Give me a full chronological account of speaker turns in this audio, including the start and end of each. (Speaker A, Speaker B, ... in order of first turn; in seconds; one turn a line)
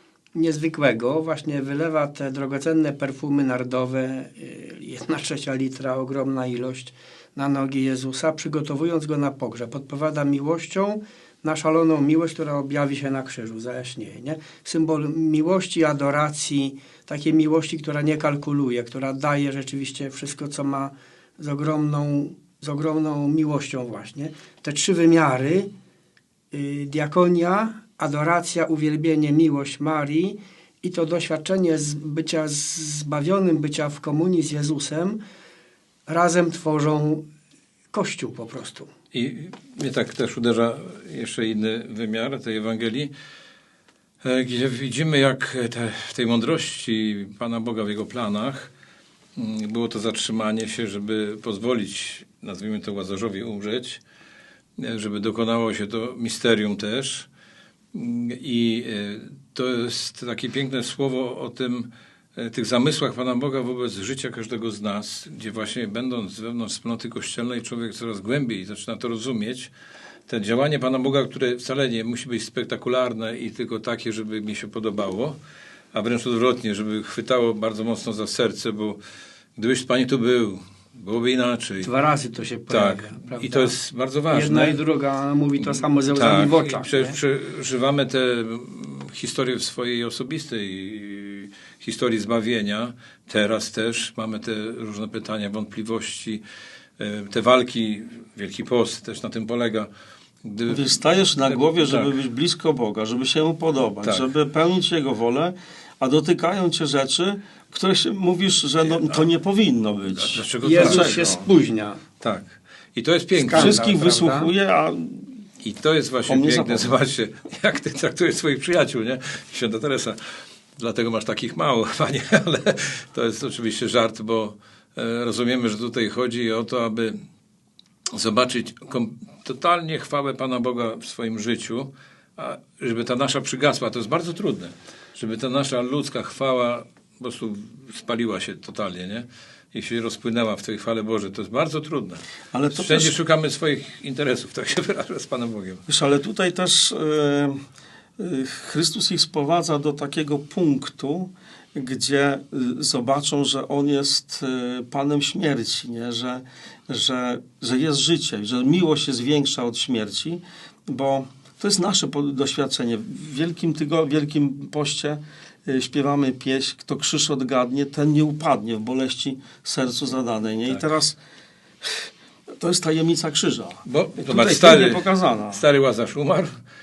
Speaker A: 0.3-25.7
Speaker A: 26.5-35.2
Speaker A: 36.1-37.2
Speaker A: 37.9-38.9
Speaker B: 39.1-43.1
Speaker B: 44.2-48.7
Speaker B: 49.4-54.0
Speaker B: 54.8-57.3
Speaker B: 57.9-69.7
Speaker B: 70.3-75.4
Speaker B: 75.9-79.0
Speaker B: 79.5-81.9
Speaker A: 81.8-83.7
Speaker B: 82.7-84.8
Speaker A: 84.3-87.2
Speaker B: 85.6-96.4
Speaker B: 97.0-99.9
Speaker B: 100.4-102.1
Speaker C: 100.7-111.5
Speaker B: 110.1-111.1
Speaker A: 110.6-112.0
Speaker B: 112.2-113.8
Speaker A: 113.4-114.5
Speaker C: 113.5-115.3
Speaker B: 115.6-120.2
Speaker C: 116.2-116.9
Speaker B: 120.8-127.1
Speaker B: 128.1-145.8
Speaker C: 142.5-143.1
Speaker C: 145.9-147.6
Speaker C: 148.2-171.2
Speaker C: 172.6-175.6
Speaker B: 173.8-176.5